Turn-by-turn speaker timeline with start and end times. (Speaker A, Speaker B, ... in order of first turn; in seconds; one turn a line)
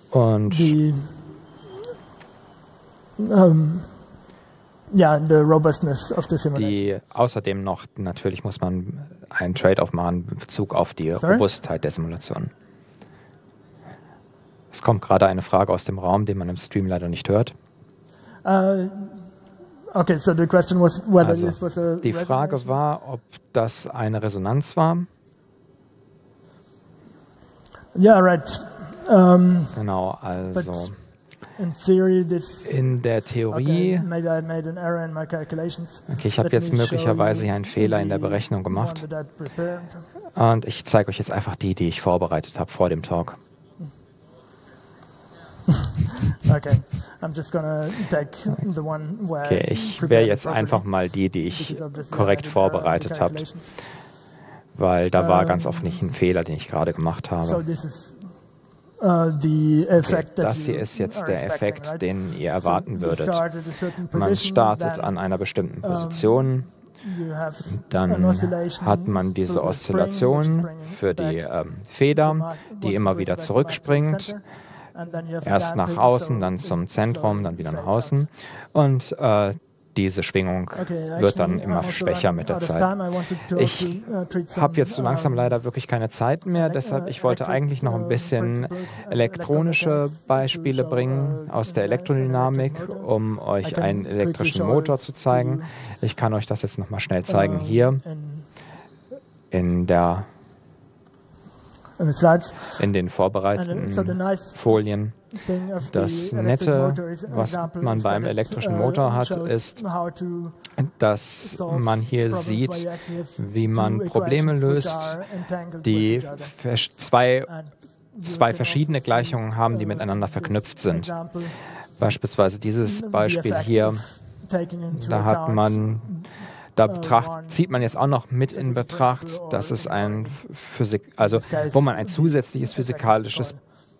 Speaker A: 0.1-0.8
Speaker B: 0.5-1.4
Speaker B: 3.2-4.1
Speaker B: 4.9-6.9
Speaker A: 6.5-12.5
Speaker B: 11.2-11.5
Speaker A: 14.7-17.5
Speaker B: 18.4-19.4
Speaker B: 19.9-22.8
Speaker A: 21.2-25.1
Speaker B: 27.9-40.1
Speaker A: 29.7-31.0
Speaker A: 32.6-34.1
Speaker A: 36.1-39.1
Speaker A: 40.3-43.4
Speaker B: 45.7-54.0
Speaker A: 49.4-53.9
Speaker A: 54.7-57.6
Speaker B: 55.1-56.0
Speaker B: 57.4-78.3
Speaker A: 60.0-66.7
Speaker A: 67.7-74.4
Speaker A: 75.4-98.0
Speaker B: 80.7-85.6
Speaker B: 86.5-95.8
Speaker B: 97.3-98.7
Speaker A: 99.5-100.3
Speaker B: 102.0-103.0
Speaker A: 102.8-109.8
Speaker B: 103.5-116.6
Speaker A: 110.8-124.4
Speaker B: 117.4-121.9
Speaker B: 122.8-130.5
Speaker A: 124.9-133.6
Speaker B: 131.2-133.6